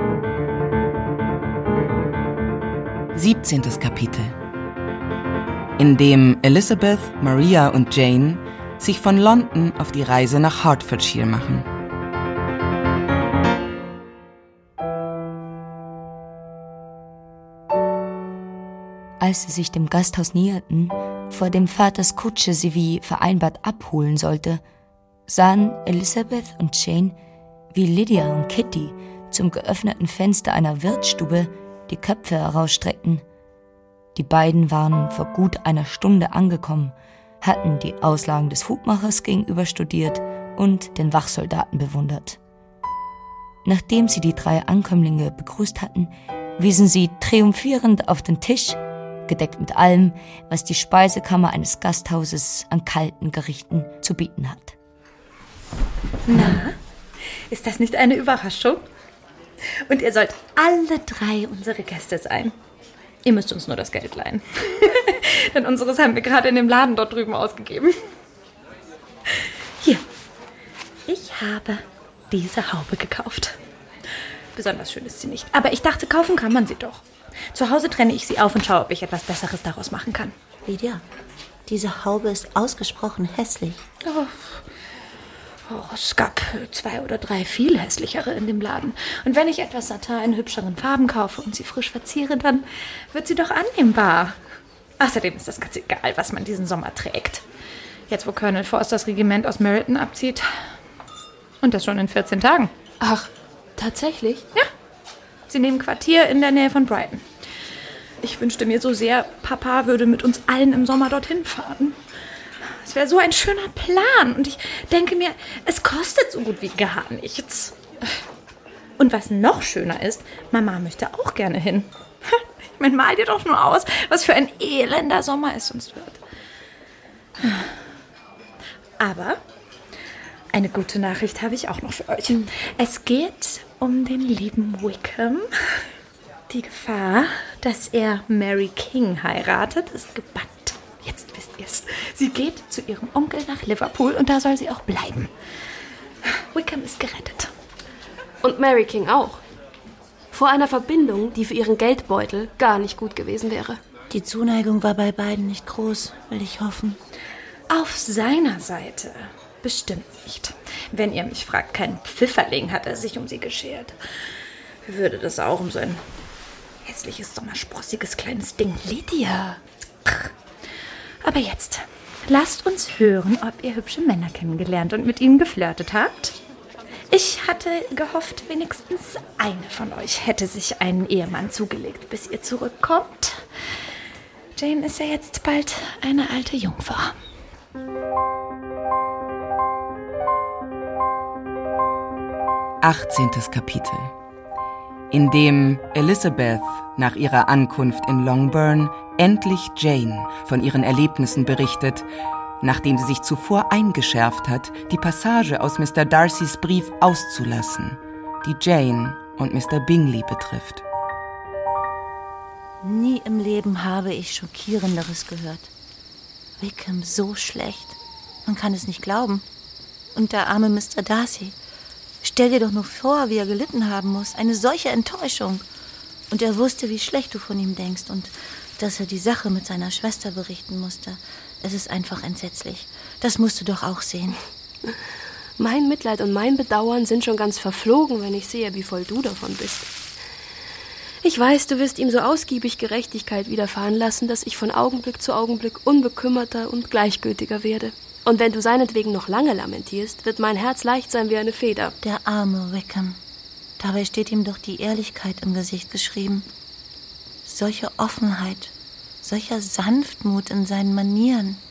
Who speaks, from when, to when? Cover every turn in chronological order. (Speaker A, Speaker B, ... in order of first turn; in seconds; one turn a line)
Speaker A: 3.1-4.3
Speaker A: 5.8-11.7
Speaker B: 19.2-24.6
Speaker B: 25.3-27.2
Speaker B: 27.7-33.2
Speaker B: 34.1-42.4
Speaker B: 43.6-54.8
Speaker C: 56.3-56.8
Speaker C: 57.5-58.9
Speaker C: 59.9-62.5
Speaker C: 63.2-68.0
Speaker C: 69.3-70.0
Speaker C: 71.1-73.6
Speaker C: 74.5-80.3
Speaker D: 80.7-81.0
Speaker D: 81.7-83.8
Speaker C: 84.0-84.7
Speaker C: 85.7-94.4
Speaker C: 95.0-97.5
Speaker C: 98.1-100.7
Speaker C: 101.6-102.7
Speaker E: 103.0-104.4
Speaker C: 105.5-107.3
Speaker C: 108.2-112.0
Speaker C: 112.6-117.8
Speaker C: 119.0-126.2
Speaker C: 127.4-127.7
Speaker C: 129.0-129.4
Speaker C: 130.5-135.9
Speaker C: 136.5-145.3
Speaker C: 146.4-147.5
Speaker E: 148.4-149.4
Speaker E: 150.3-153.8
Speaker D: 154.1-157.0
Speaker C: 157.7-164.0
Speaker C: 164.8-166.0
Speaker C: 166.8-170.3
Speaker C: 171.2-176.4
Speaker C: 177.1-183.5
Speaker C: 184.6-187.2
Speaker A: 192.8-194.1
Speaker A: 195.1-202.1
Speaker A: 202.6-210.8
Speaker D: 212.8-215.7
Speaker D: 216.6-219.4
Speaker D: 220.1-221.6
Speaker D: 222.2-225.7
Speaker D: 226.3-234.4
Speaker E: 235.6-239.9
Speaker E: 241.2-252.0
Speaker D: 252.0-253.2
Speaker D: 253.8-256.5
Speaker D: 257.4-261.6